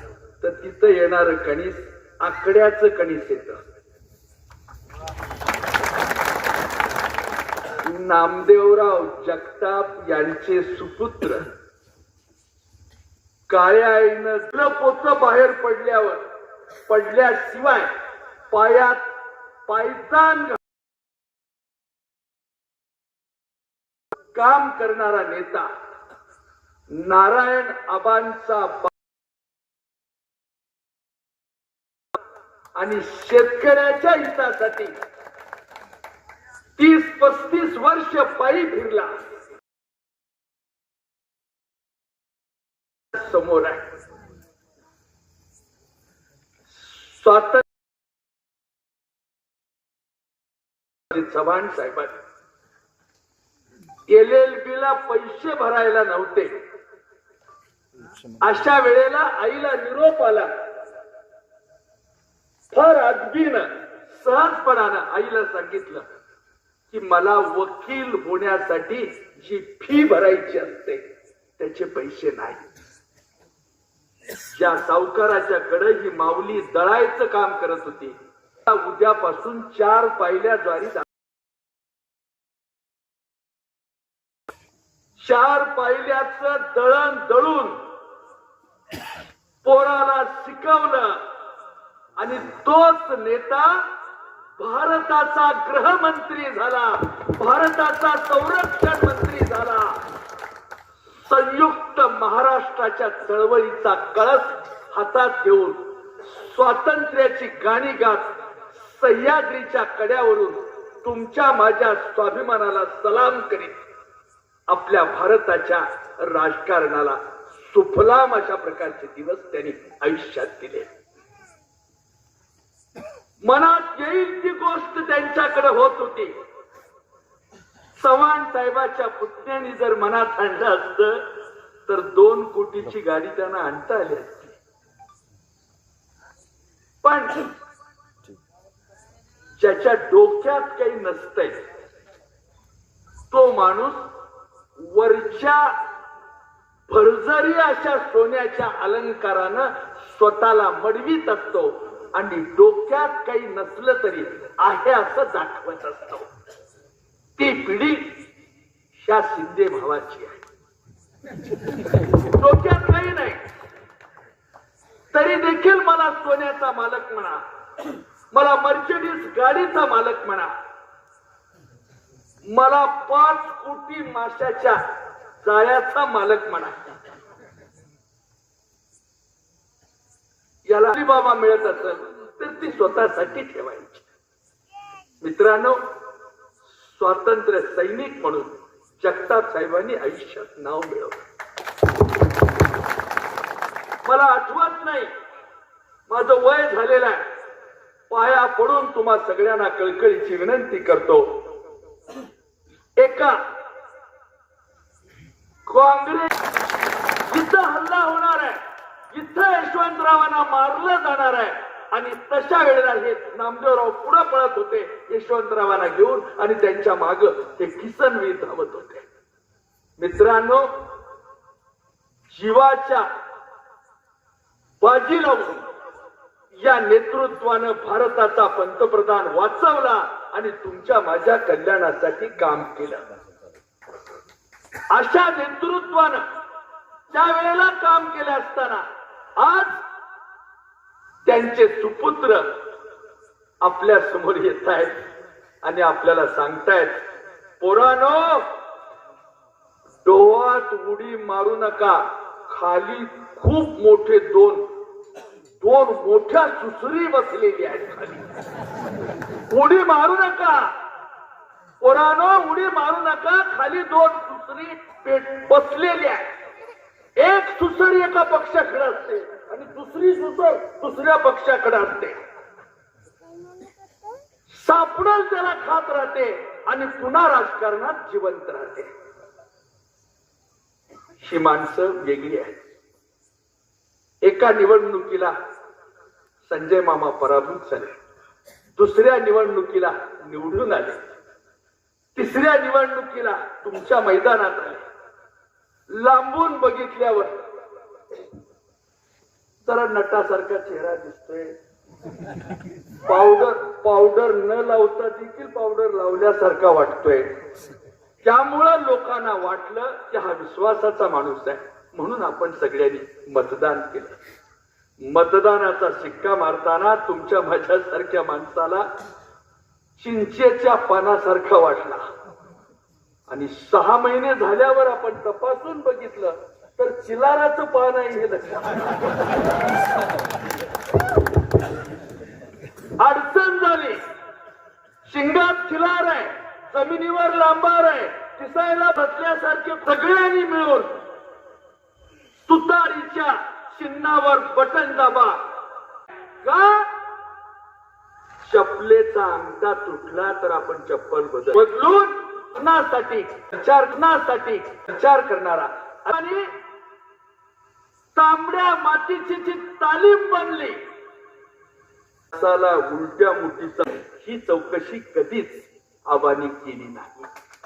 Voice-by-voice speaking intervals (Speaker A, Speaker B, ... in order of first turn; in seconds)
Speaker A: 0.4-3.6, 7.8-11.5, 13.5-16.2, 16.9-17.9, 18.5-19.1, 19.7-20.6, 24.3-25.7, 26.9-28.9, 32.7-35.0, 36.8-39.2, 43.1-43.9, 46.8-47.6, 51.1-52.1, 54.1-56.6, 58.4-60.5, 62.7-66.1, 66.9-71.0, 71.6-72.7, 74.5-81.1, 85.2-87.8, 89.6-91.2, 92.2-93.8, 94.6-100.0, 101.1-113.8, 114.7-120.9, 123.4-126.3, 128.0-131.2, 131.9-134.5, 137.0-137.5, 139.6-141.6, 143.3-144.1, 144.8-145.8, 146.9-156.3, 157.4-158.2, 158.9-160.4, 162.2-163.4, 165.1-167.4, 168.3-170.5, 172.5-174.8, 175.4-176.8, 180.7-184.1, 185.2-185.8, 186.8-191.2, 194.0-195.1, 196.1-197.2, 198.1-201.4, 203.0-203.4, 205.7-206.3, 207.3-219.1, 220.0-220.7, 222.3-223.1, 224.8-225.7, 226.5-233.0, 234.9-236.2, 237.1-238.8, 239.4-239.8, 241.2-242.5, 243.6-245.0, 245.6-247.0, 247.6-248.5, 250.0-254.6, 255.6-258.2, 259.5-260.7, 261.8-266.3, 267.2-272.2, 274.5-278.9, 281.2-282.6, 284.2-285.3, 286.5-288.0, 288.8-291.0, 292.1-294.8, 295.9-297.3, 299.6-301.6, 303.1-307.3, 308.2-314.2, 315.0-318.9, 320.0-322.1, 323.3-329.0, 333.0-334.1, 335.0-340.9, 342.4-345.4, 346.4-346.9, 348.4-356.5, 358.1-360.8, 362.3-367.2